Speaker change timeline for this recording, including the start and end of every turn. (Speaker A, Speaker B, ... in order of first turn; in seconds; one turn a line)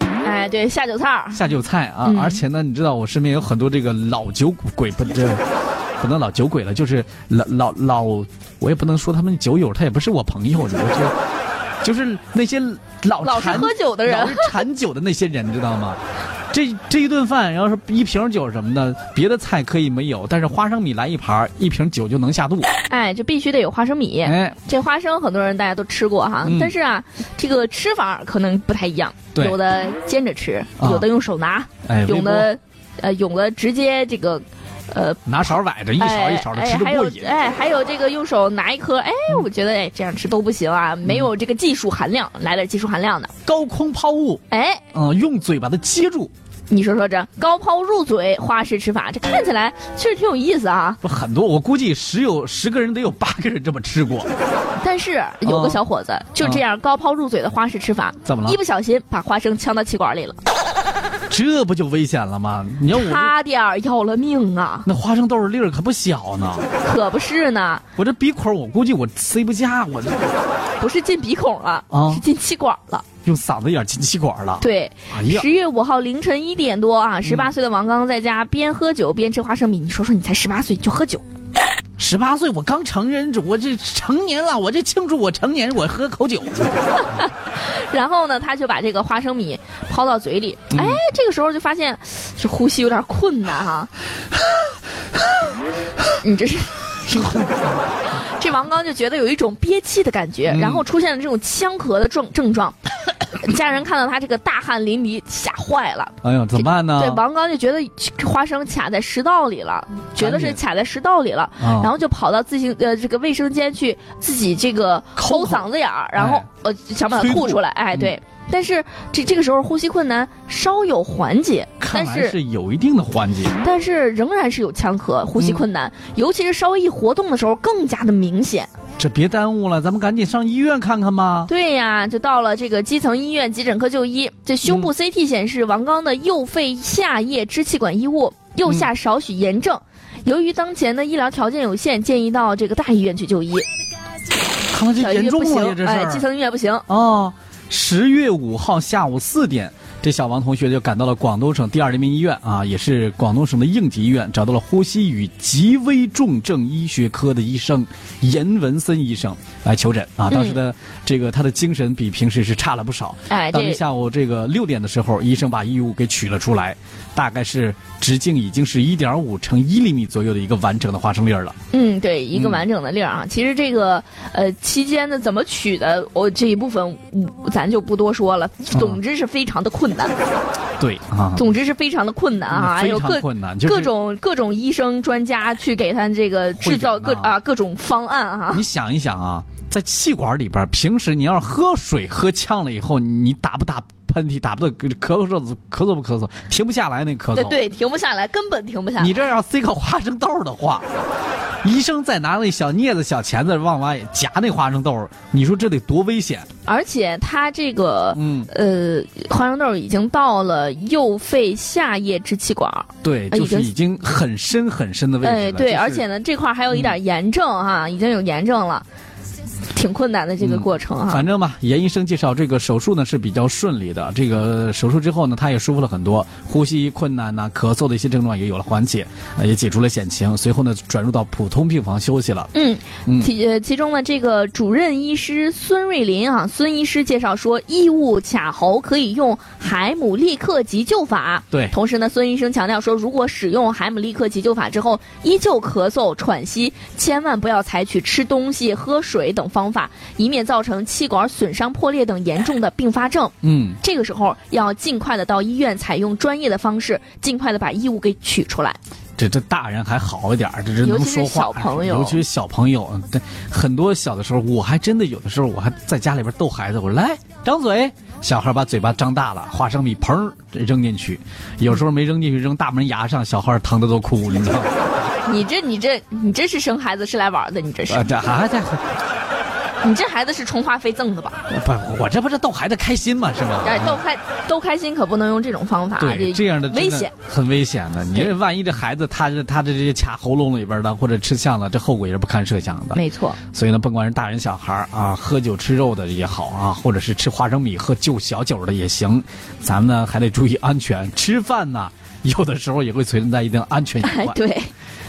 Speaker A: 0.2-1.4
Speaker B: 1.3-5.4
Speaker A: 2.0-2.4
Speaker B: 6.0-11.1
Speaker B: 11.8-22.7
Speaker A: 13.2-14.6
Speaker A: 22.9-35.2
Speaker B: 24.2-24.6
Speaker B: 26.4-26.7
Speaker B: 30.8-31.1
Speaker B: 31.8-32.5
Speaker B: 35.2-37.3
Speaker A: 36.0-43.3
Speaker B: 43.4-46.3
Speaker A: 44.5-44.8
Speaker A: 46.7-51.0
Speaker B: 51.0-54.3
Speaker A: 54.8-60.4
Speaker B: 55.4-55.8
Speaker B: 58.2-58.6
Speaker B: 61.3-63.3
Speaker A: 62.9-64.8
Speaker B: 64.8-66.7
Speaker A: 66.8-67.8
Speaker B: 68.0-70.3
Speaker A: 70.8-73.0
Speaker B: 71.9-72.2
Speaker B: 73.2-75.5
Speaker A: 74.6-81.2
Speaker B: 77.2-77.5
Speaker B: 82.0-86.8
Speaker A: 87.2-93.9
Speaker B: 90.7-91.0
Speaker A: 96.2-97.3
Speaker B: 97.1-97.7
Speaker A: 98.0-122.3
Speaker B: 100.5-100.8
Speaker B: 106.2-107.2
Speaker B: 110.2-110.6
Speaker B: 111.6-111.9
Speaker B: 115.2-116.5
Speaker B: 117.1-118.1
Speaker B: 121.8-123.6
Speaker A: 123.6-128.7
Speaker B: 129.0-131.5
Speaker A: 131.5-143.7
Speaker B: 144.7-146.2
Speaker A: 145.0-146.8
Speaker B: 146.9-171.6
Speaker A: 160.3-160.6
Speaker A: 163.3-163.8
Speaker A: 171.7-180.2
Speaker B: 172.3-172.6
Speaker B: 178.7-179.0
Speaker B: 180.8-181.4
Speaker A: 181.3-188.6
Speaker B: 182.5-183.9
Speaker B: 186.6-187.4
Speaker B: 188.5-197.6
Speaker A: 197.3-199.2
Speaker B: 199.0-200.9
Speaker B: 201.6-206.5
Speaker A: 206.7-213.7
Speaker B: 208.1-208.5
Speaker B: 213.0-216.0
Speaker A: 215.2-218.8
Speaker A: 219.7-221.2
Speaker B: 220.4-232.5
Speaker A: 232.5-258.8
Speaker B: 253.4-253.8
Speaker B: 259.2-274.7
Speaker A: 260.8-262.2
Speaker A: 275.2-278.0
Speaker B: 277.9-278.8
Speaker A: 279.8-281.4
Speaker B: 281.5-284.0
Speaker A: 283.6-287.1
Speaker B: 286.0-304.4
Speaker A: 292.9-293.4
Speaker A: 304.0-304.7